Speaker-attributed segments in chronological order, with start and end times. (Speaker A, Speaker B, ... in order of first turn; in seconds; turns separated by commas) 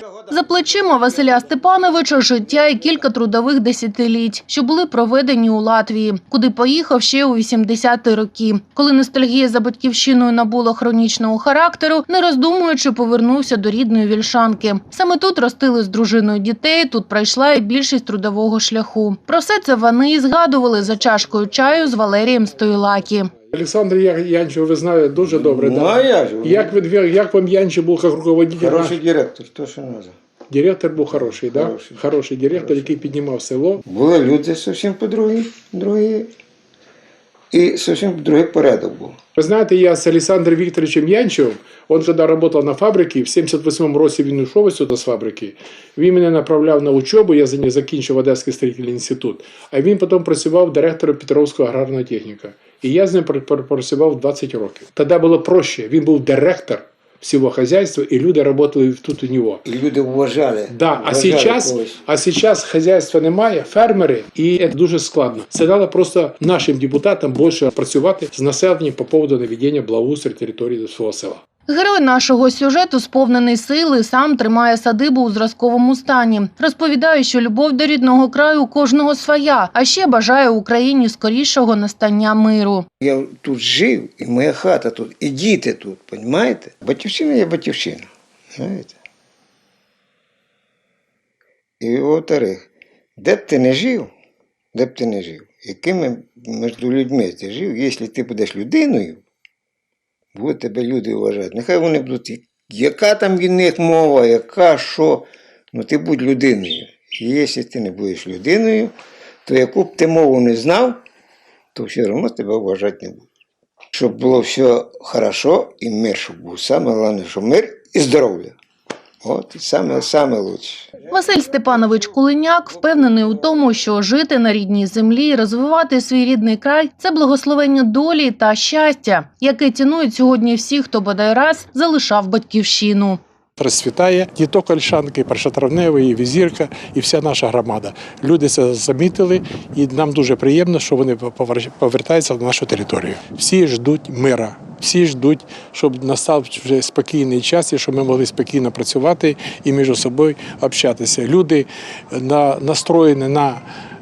Speaker A: 0.2-23.3, Speaker B: 23.5-29.0, Speaker C: 25.2-26.8, Speaker C: 28.6-30.1, Speaker B: 30.5-33.8, Speaker C: 31.0-33.0, Speaker C: 33.8-36.3, Speaker C: 37.5-39.1, Speaker B: 39.4-59.6, Speaker C: 59.6-62.0, Speaker B: 60.7-71.4, Speaker A: 71.7-82.8, Speaker C: 83.0-88.9, Speaker C: 91.8-92.6, Speaker C: 93.2-94.1, Speaker C: 94.7-99.2, Speaker C: 100.3-108.9, Speaker C: 109.4-111.0, Speaker C: 111.7-113.2, Speaker C: 113.9-118.5, Speaker C: 119.2-121.0, Speaker A: 121.0-133.2, Speaker B: 133.6-153.6